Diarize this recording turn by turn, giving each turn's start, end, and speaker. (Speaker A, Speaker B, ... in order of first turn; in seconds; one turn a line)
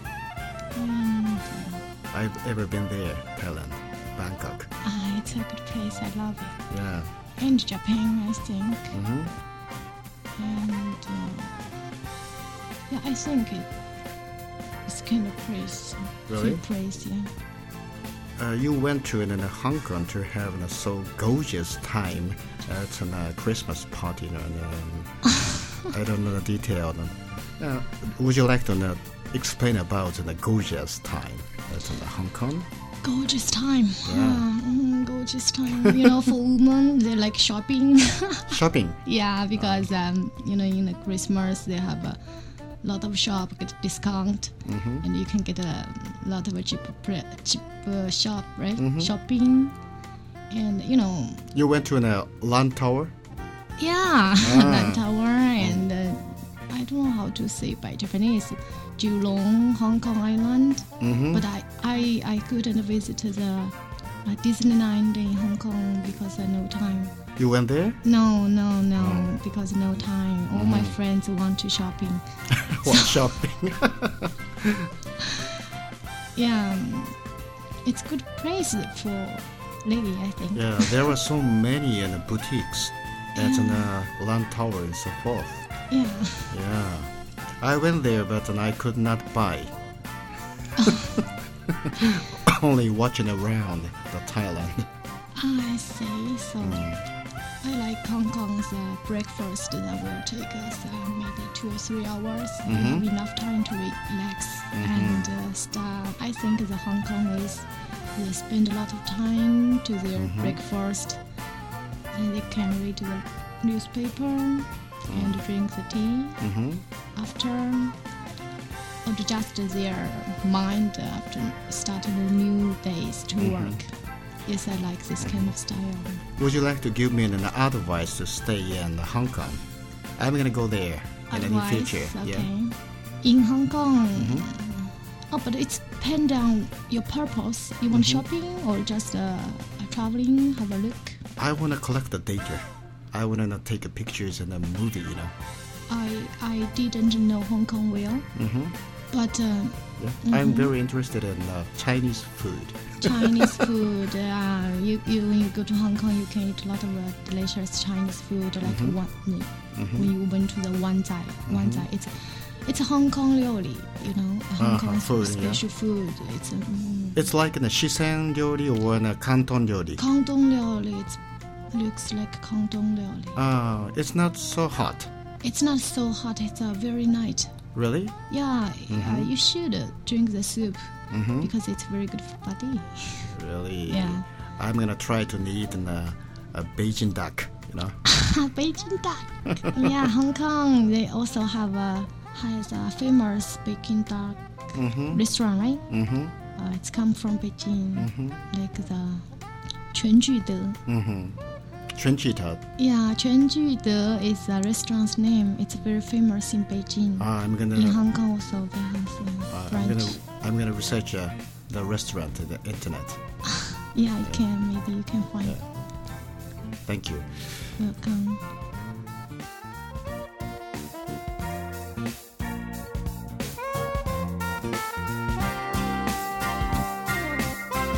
Speaker A: 0.8-1.8
Speaker B: 2.1-4.7
Speaker A: 4.8-6.6
Speaker B: 6.7-7.1
Speaker A: 7.4-9.0
Speaker B: 8.9-9.3
Speaker A: 10.4-11.5
Speaker A: 12.9-13.7
Speaker A: 14.9-17.3
Speaker B: 16.3-16.6
Speaker B: 18.4-25.2
Speaker B: 25.9-32.7
Speaker A: 33.0-42.2
Speaker B: 34.0-34.4
Speaker B: 38.5-39.0
Speaker A: 42.8-49.8
Speaker B: 44.6-45.0
Speaker B: 48.8-49.1
Speaker A: 50.5-51.5
Speaker B: 51.5-53.1
Speaker A: 53.8-63.7
Speaker B: 54.4-55.0
Speaker B: 61.0-61.5
Speaker A: 64.2-67.2
Speaker B: 67.4-68.0
Speaker A: 68.0-72.2
Speaker B: 69.0-69.3
Speaker B: 70.5-71.0
Speaker B: 72.5-74.9
Speaker A: 72.8-73.2
Speaker A: 76.4-77.2
Speaker A: 77.8-81.1
Speaker B: 80.5-85.7
Speaker A: 83.4-83.9
Speaker A: 85.9-86.5
Speaker B: 86.5-87.1
Speaker B: 87.6-89.7
Speaker B: 90.8-94.8
Speaker A: 95.4-96.9
Speaker B: 96.6-97.0
Speaker A: 97.6-111.2
Speaker B: 102.7-103.1
Speaker B: 104.7-105.3
Speaker B: 110.2-110.6
Speaker A: 112.1-116.4
Speaker B: 115.1-115.4
Speaker B: 116.4-116.8
Speaker A: 117.2-118.0
Speaker A: 119.0-123.9
Speaker B: 123.4-123.8
Speaker A: 124.5-126.2
Speaker B: 125.2-125.5
Speaker B: 126.4-129.6
Speaker B: 130.2-132.5
Speaker A: 131.3-141.2
Speaker B: 134.2-134.5
Speaker B: 137.9-138.2
Speaker B: 141.4-145.3
Speaker A: 145.9-148.3
Speaker B: 148.3-148.8
Speaker A: 149.1-150.7
Speaker B: 150.0-153.6
Speaker A: 153.0-167.2
Speaker B: 158.7-159.0
Speaker B: 159.7-160.1
Speaker B: 161.5-161.9
Speaker B: 164.6-165.6
Speaker B: 167.2-170.0
Speaker A: 170.0-171.2
Speaker A: 171.7-173.4
Speaker B: 173.4-175.1
Speaker A: 175.4-177.6
Speaker B: 177.7-178.2
Speaker A: 178.3-183.3
Speaker B: 178.9-179.3
Speaker B: 181.1-181.5
Speaker B: 183.2-188.0
Speaker A: 183.9-184.2
Speaker A: 188.1-194.4
Speaker B: 194.7-195.2
Speaker A: 195.1-195.8
Speaker B: 195.9-196.3
Speaker A: 196.5-199.2
Speaker B: 198.0-198.4
Speaker A: 199.9-200.8
Speaker B: 200.9-201.4
Speaker B: 201.9-202.6
Speaker A: 202.8-210.2
Speaker B: 207.2-208.0
Speaker B: 209.5-213.2
Speaker A: 213.5-215.6
Speaker B: 216.9-217.5
Speaker A: 217.8-218.4